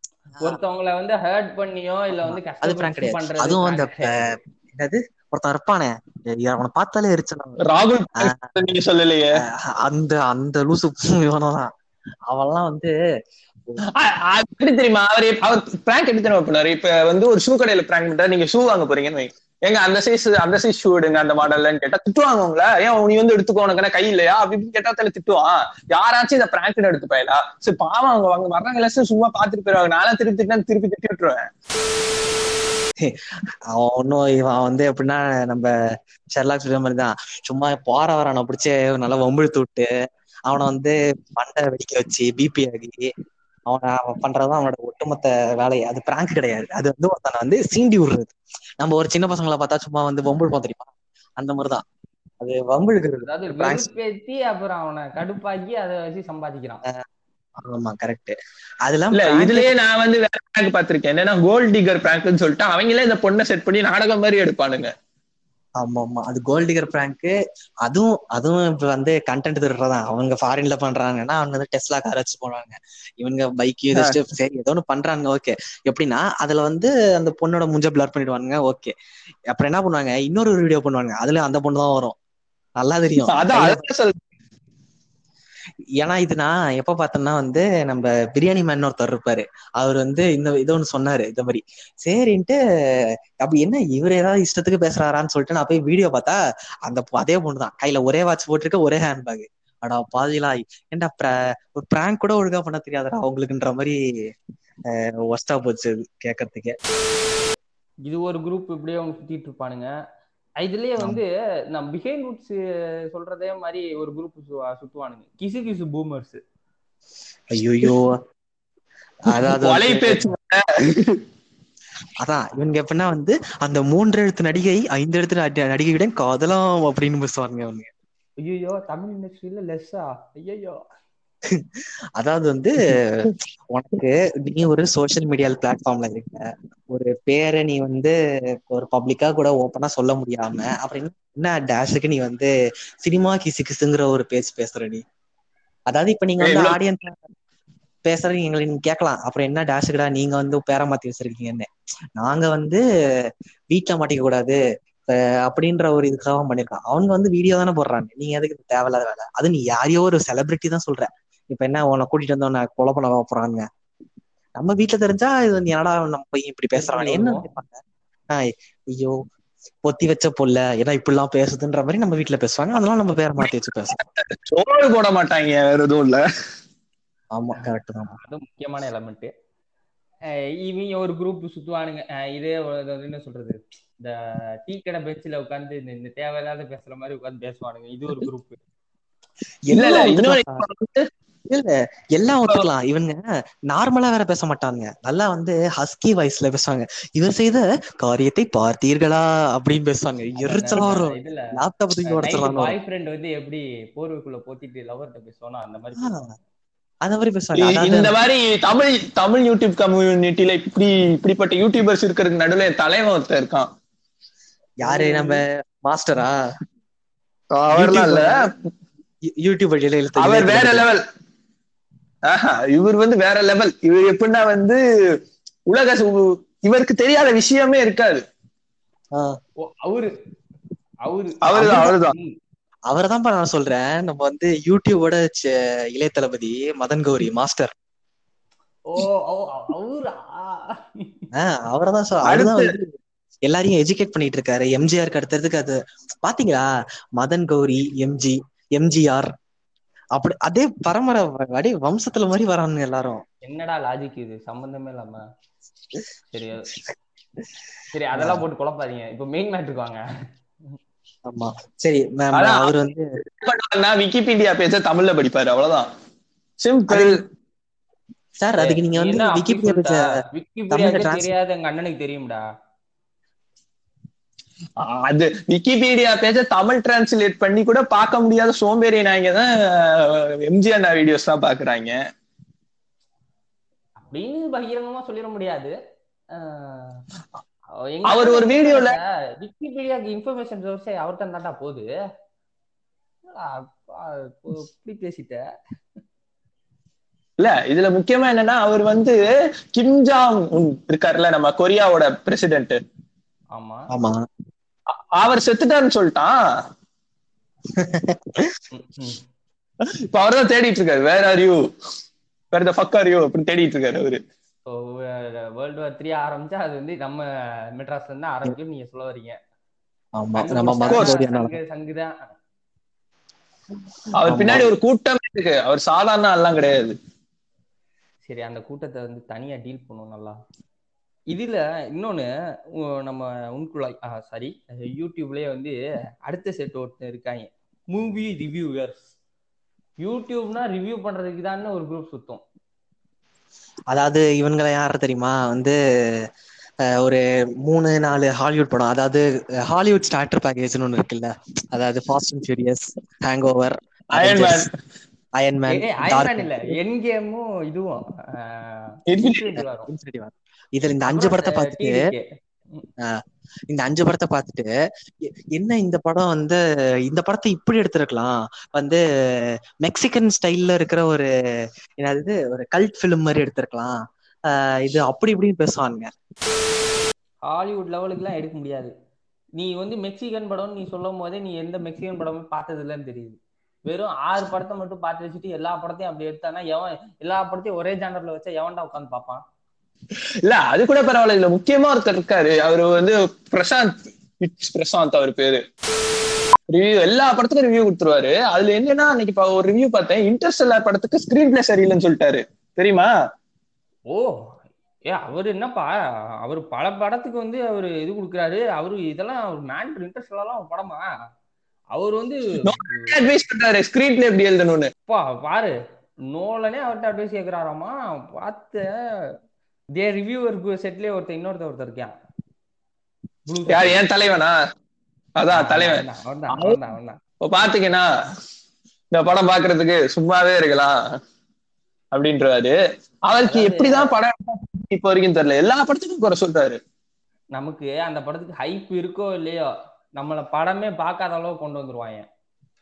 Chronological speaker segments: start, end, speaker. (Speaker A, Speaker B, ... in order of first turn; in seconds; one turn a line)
Speaker A: 0.4-4.3
Speaker B: 2.1-7.6
Speaker C: 7.6-9.3
Speaker B: 8.2-8.7
Speaker B: 9.4-11.7
Speaker B: 12.3-12.9
Speaker C: 13.9-31.5
Speaker B: 33.0-35.7
Speaker B: 36.3-39.9
Speaker B: 40.5-43.1
Speaker B: 43.7-51.8
Speaker B: 52.4-53.9
Speaker A: 53.2-56.8
Speaker B: 57.6-59.7
Speaker C: 59.1-64.9
Speaker B: 65.8-78.9
Speaker B: 79.5-82.1
Speaker B: 82.8-83.8
Speaker C: 83.3-84.2
Speaker B: 86.0-92.6
Speaker B: 93.4-104.3
Speaker B: 104.9-106.8
Speaker A: 108.0-109.9
Speaker A: 110.6-112.6
Speaker A: 113.1-116.4
Speaker B: 117.5-118.2
Speaker B: 119.2-120.2
Speaker C: 119.3-121.2
Speaker B: 122.2-127.9
Speaker A: 128.4-130.8
Speaker B: 131.5-138.1
Speaker B: 138.7-142.5
Speaker B: 143.0-145.0
Speaker B: 145.9-147.2
Speaker C: 146.4-146.8
Speaker B: 148.0-152.8
Speaker B: 153.7-154.6
Speaker B: 155.1-163.7
Speaker B: 164.6-167.8
Speaker A: 166.8-167.5
Speaker B: 168.3-169.2
Speaker B: 169.8-173.9
Speaker C: 173.9-176.2
Speaker B: 177.3-178.1
Speaker A: 177.6-179.3
Speaker A: 180.3-188.6
Speaker B: 189.7-190.6
Speaker C: 189.7-191.1
Speaker B: 191.5-193.2
Speaker B: 193.7-202.7
Speaker A: 200.4-201.5
Speaker A: 202.1-206.3
Speaker B: 206.0-206.3
Speaker B: 207.0-208.2
Speaker C: 207.6-213.7
Speaker B: 214.8-216.3
Speaker A: 214.8-215.3
Speaker C: 217.5-218.5
Speaker B: 217.7-218.4
Speaker B: 219.3-220.9
Speaker C: 220.2-221.0
Speaker C: 222.3-224.8
Speaker C: 225.7-228.2
Speaker A: 229.6-230.1
Speaker A: 231.1-232.3
Speaker C: 231.4-232.1
Speaker B: 231.6-231.9
Speaker B: 232.9-237.7
Speaker A: 238.9-241.2
Speaker B: 241.3-242.9
Speaker C: 242.3-242.7
Speaker B: 243.4-246.7
Speaker B: 247.2-249.3
Speaker B: 250.2-253.2
Speaker A: 253.4-255.2
Speaker A: 256.3-256.7
Speaker A: 257.9-260.0
Speaker B: 258.1-258.4
Speaker B: 261.2-263.0
Speaker C: 262.3-262.7
Speaker C: 263.4-265.9
Speaker C: 266.6-267.2
Speaker B: 266.9-267.2
Speaker B: 268.4-270.1
Speaker A: 268.6-272.4
Speaker B: 270.7-271.3
Speaker C: 274.8-281.9
Speaker A: 284.0-285.7
Speaker A: 286.4-287.0
Speaker A: 287.9-291.9
Speaker C: 288.1-289.0
Speaker A: 293.3-295.4
Speaker C: 297.4-299.2
Speaker C: 299.7-302.8
Speaker A: 303.5-303.9
Speaker B: 303.9-304.2
Speaker C: 305.1-306.3
Speaker B: 307.7-308.5
Speaker A: 308.7-309.2
Speaker C: 310.1-311.6
Speaker C: 312.5-314.2
Speaker A: 314.7-317.2
Speaker A: 317.8-319.4
Speaker B: 320.2-321.6
Speaker A: 320.4-322.1
Speaker C: 324.1-326.9
Speaker B: 324.2-324.7
Speaker A: 328.2-330.4
Speaker A: 331.3-332.3
Speaker A: 332.8-339.1
Speaker A: 340.0-342.4
Speaker B: 343.9-346.3
Speaker B: 347.0-354.7
Speaker C: 354.1-354.7
Speaker B: 355.4-356.6
Speaker A: 355.7-359.9
Speaker C: 359.1-359.4
Speaker B: 359.6-362.0
Speaker A: 361.1-362.9
Speaker B: 363.0-364.7
Speaker B: 365.5-369.0
Speaker B: 369.8-371.3
Speaker B: 372.0-373.9
Speaker B: 374.5-376.1
Speaker A: 377.5-378.9
Speaker A: 379.6-383.4
Speaker A: 383.9-389.4
Speaker C: 390.4-395.6
Speaker C: 396.7-403.1
Speaker A: 404.1-404.4
Speaker A: 405.1-411.0
Speaker A: 411.9-413.1
Speaker C: 412.6-414.9
Speaker A: 415.1-415.7
Speaker A: 416.3-418.9
Speaker A: 420.0-422.1
Speaker A: 423.5-424.0
Speaker C: 423.7-424.5
Speaker C: 425.4-426.8
Speaker A: 425.5-427.2
Speaker C: 427.4-428.1
Speaker C: 429.1-430.9
Speaker C: 432.1-432.7
Speaker C: 433.3-436.8
Speaker A: 433.4-434.2
Speaker A: 437.5-442.3